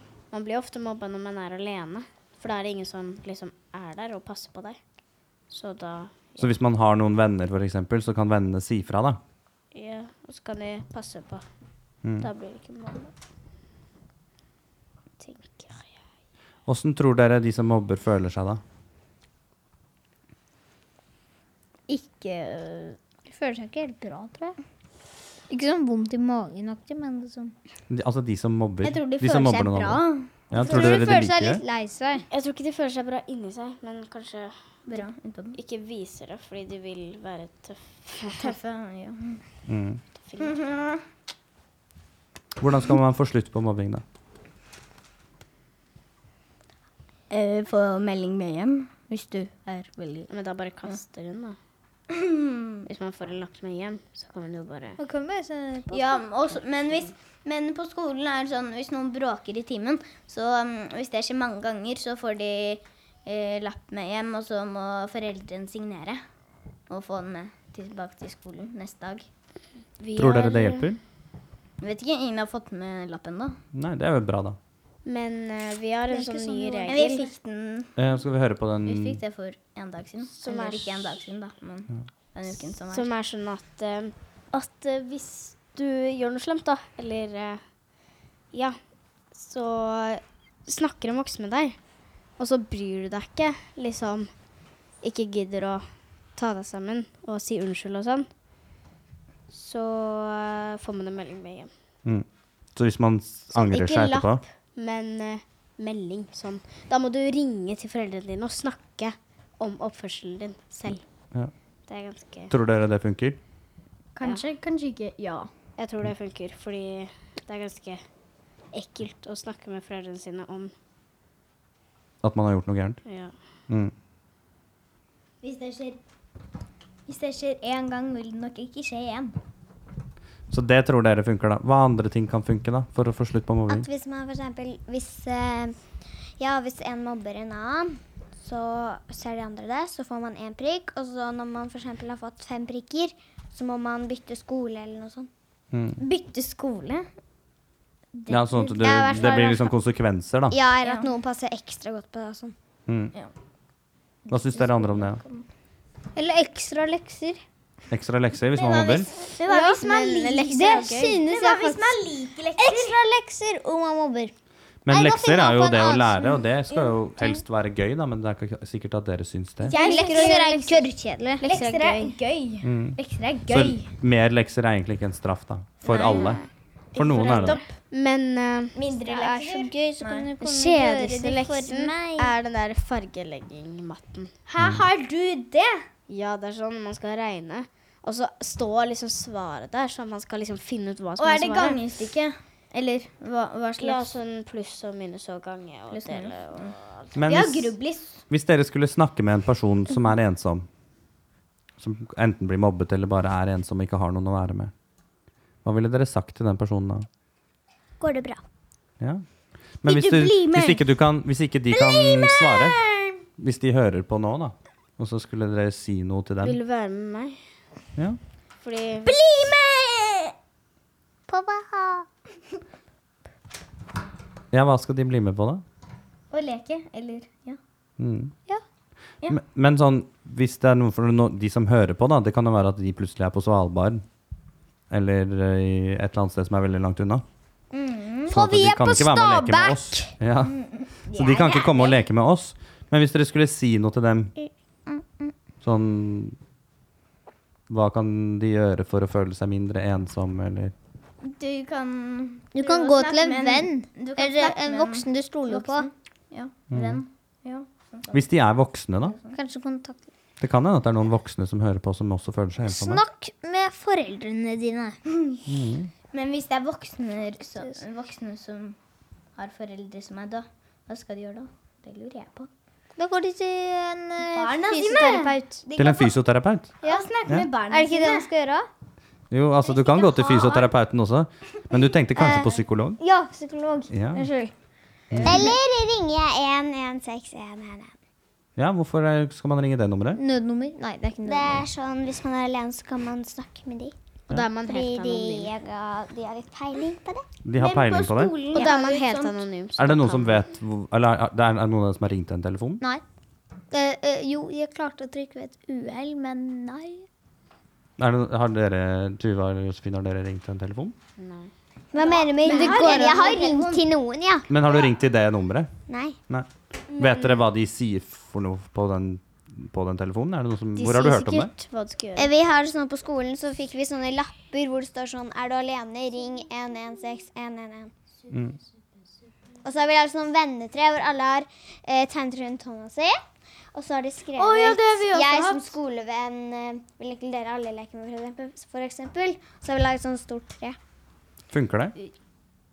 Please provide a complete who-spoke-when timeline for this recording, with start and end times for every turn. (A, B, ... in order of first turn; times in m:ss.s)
0:00.3-0:04.8 A
0:05.5-0:06.5 A
0:06.4-0:09.2 B
0:09.7-0:11.4 A
0:12.0-0:12.3 B
0:12.2-0:13.1 A
0:15.2-0:15.9 A
0:16.7-0:18.6 B
0:21.9-0:23.0 C
0:23.3-0:24.6 D
0:25.5-0:27.5 D
0:27.9-0:31.6 B
0:28.8-0:30.3 C
0:30.5-0:32.2 D
0:32.3-0:35.0 A
0:34.9-0:35.6 C
0:35.6-0:38.6 A
0:38.3-0:39.4 C
0:39.7-0:40.0 B
0:40.2-0:40.6 A
0:40.4-0:41.0 C
0:42.6-0:44.0 B
0:47.3-0:50.3 C
0:50.3-0:51.6 A
0:52.1-0:52.9 C
0:52.9-0:55.0 A
0:55.0-0:56.2 D
0:55.9-1:06.2 C
1:06.9-1:09.3 C
1:10.0-1:10.9 A
1:10.2-1:11.0 B
1:11.8-1:13.6 C
1:13.7-1:14.6 B
1:15.1-1:17.3 A
1:16.1-1:17.3 D
1:16.9-1:17.9 C
1:18.0-1:19.2 B
1:18.8-1:23.1 C
1:20.4-1:21.1 A
1:22.9-1:27.6 A
1:28.5-1:28.8 A
1:29.3-1:31.8 A
1:32.4-1:34.3 A
1:35.0-1:38.3 A
1:39.5-1:41.7 A
1:42.0-1:44.4 B
1:43.5-1:51.0 A
1:51.9-1:52.5 A
1:52.5-1:53.4 B
1:54.2-1:55.5 C
1:55.8-1:58.0 A
1:58.7-2:00.7 A
2:02.2-2:03.0 B
2:03.1-2:03.3 A
2:03.7-2:03.9 B
2:05.4-2:06.0 C
2:07.1-2:09.4 C
2:10.5-2:13.9 B
2:13.7-2:15.8 E
2:16.4-2:25.3 E
2:25.7-2:26.0 B
2:26.0-2:27.1 C
2:28.1-2:28.8 C
2:28.3-2:30.6 B
2:28.6-2:29.8 E
2:30.5-2:32.6 E
2:30.8-2:31.1 C
2:32.9-2:33.1 B
2:34.3-2:35.5 C
2:34.3-2:35.2 B
2:36.2-2:37.4 D
2:37.9-2:39.1 B
2:38.5-2:43.0 C
2:39.5-2:42.0 D
2:39.5-2:41.2 A
2:42.6-2:44.3 D
2:44.8-2:49.8 B
2:44.9-2:46.4 D
2:49.6-2:50.9 C
2:49.7-2:51.4 D
2:51.4-2:52.1 A
2:51.4-2:53.9 C
2:52.6-2:56.4 B
2:55.9-2:56.4 C
2:55.9-2:58.8 A
2:57.0-2:57.6 B
2:57.0-2:57.6 C
2:58.8-3:00.3 C
2:59.0-3:02.3 D
3:00.4-3:04.3 A
3:04.5-3:05.8 C
3:06.1-3:11.8 A
3:11.2-3:14.2 C
3:13.8-3:17.0 A
3:15.9-3:18.2 C
3:17.2-3:17.8 B
3:18.3-3:20.7 B
3:21.8-3:24.7 B
3:25.6-3:27.1 B
3:28.0-3:28.4 E
3:29.8-3:32.9 B
3:29.9-3:30.8 C
3:31.8-3:33.1 C
3:33.4-3:36.6 B
3:36.4-3:37.4 A
3:38.6-3:39.3 A
3:39.0-3:40.3 C
3:41.3-3:42.0 D
3:44.5-3:45.6 B
3:46.3-3:47.6 C
3:48.0-3:48.3 B
3:49.3-3:54.0 B
3:54.9-3:57.2 B
3:57.7-3:58.4 C
3:58.3-4:00.6 B
3:58.3-4:00.1 D
4:00.4-4:02.0 C
4:01.1-4:04.3 B
4:05.6-4:06.4 B
4:07.7-4:10.7 B
4:11.2-4:18.2 C
4:12.5-4:15.9 D
4:16.7-4:17.0 B
4:18.1-4:19.2 B
4:19.0-4:19.4 C
4:19.3-4:20.0 D
4:20.4-4:23.0 B
4:22.7-4:25.0 D
4:25.5-4:25.9 B
4:26.1-4:28.8 C
4:29.4-4:32.5 C
4:33.0-4:35.7 D
4:34.3-4:36.1 C
4:35.8-4:36.7 B
4:36.8-4:38.3 C
4:36.8-4:37.1 D
4:37.7-4:38.7 D
4:39.3-4:43.0 B
4:39.8-4:40.5 C
4:42.2-4:44.5 D
4:43.9-4:44.2 B
4:45.1-4:45.5 B
4:45.2-4:47.9 E
4:48.6-4:50.2 B
4:50.2-4:51.7 D
4:51.2-4:54.0 E
4:54.3-4:55.5 A
4:54.7-4:57.2 E
4:57.4-4:58.4 B
4:57.6-4:59.4 C
4:58.5-5:00.4 A
4:59.8-5:02.8 B
5:03.7-5:07.1 D
5:08.0-5:11.0 B
5:11.2-5:11.5 A
5:11.9-5:14.5 E
5:12.0-5:13.8 C
5:12.5-5:12.9 A
5:12.5-5:13.0 D
5:14.5-5:15.7 B
5:15.9-5:16.2 E
5:16.3-5:21.5 B
5:20.8-5:22.3 A
5:22.2-5:27.9 E
5:28.3-5:28.6 B
5:29.6-5:33.2 E
5:33.7-5:40.8 E
5:34.4-5:35.7 C
5:41.5-5:42.0 B